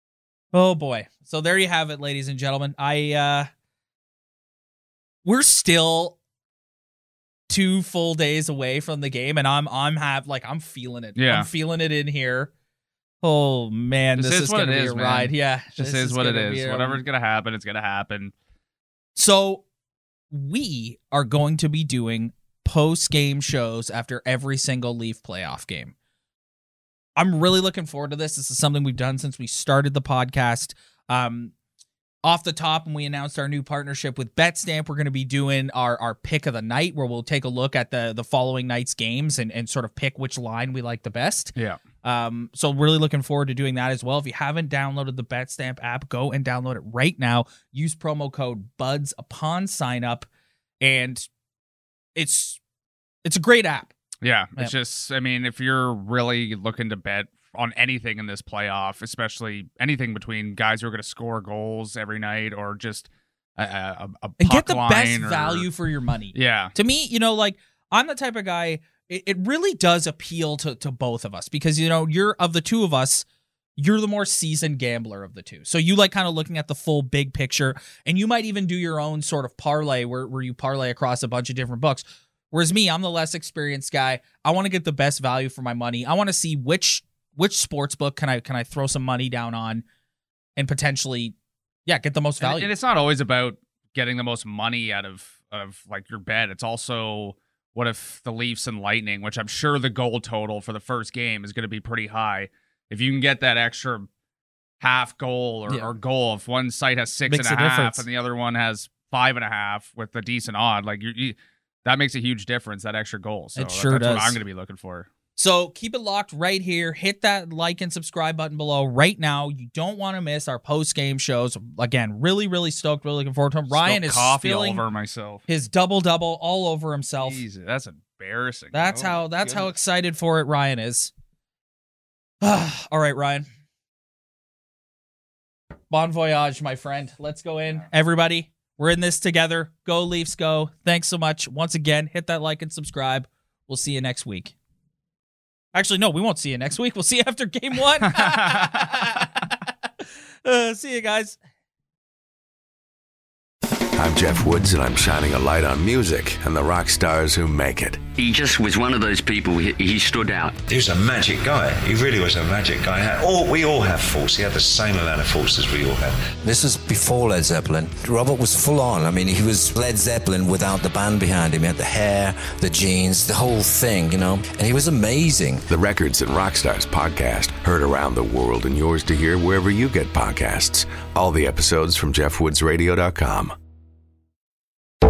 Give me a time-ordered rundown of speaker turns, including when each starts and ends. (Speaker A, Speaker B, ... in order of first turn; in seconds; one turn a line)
Speaker A: 0.5-3.5
Speaker A: 5.2-6.2
Speaker A: 7.5-12.5
Speaker B: 11.2-11.5
Speaker A: 13.2-17.0
Speaker B: 14.2-18.3
Speaker A: 19.2-19.6
Speaker A: 20.3-25.9
Speaker A: 27.2-31.5
Speaker A: 32.2-50.3
Speaker A: 50.8-51.3
Speaker A: 52.2-52.6
Speaker A: 53.2-53.9
Speaker B: 54.2-65.7
Speaker A: 64.4-73.2
Speaker B: 66.3-66.8
Speaker A: 73.8-89.8
Speaker A: 90.6-91.3
Speaker A: 91.9-92.7
Speaker B: 92.4-104.1
Speaker B: 104.8-115.1
Speaker A: 107.3-108.0
Speaker A: 113.6-114.4
Speaker A: 115.4-124.8
Speaker B: 123.7-125.4
Speaker A: 125.5-127.4
Speaker B: 127.2-129.7
Speaker A: 128.7-131.1
Speaker A: 132.4-133.5
Speaker A: 135.9-144.5
Speaker A: 145.7-149.6
Speaker B: 148.0-149.3
Speaker A: 150.4-151.4
Speaker C: 154.0-158.1
Speaker D: 158.2-160.6
Speaker E: 160.7-166.3
Speaker F: 166.4-175.7
Speaker C: 175.7-183.5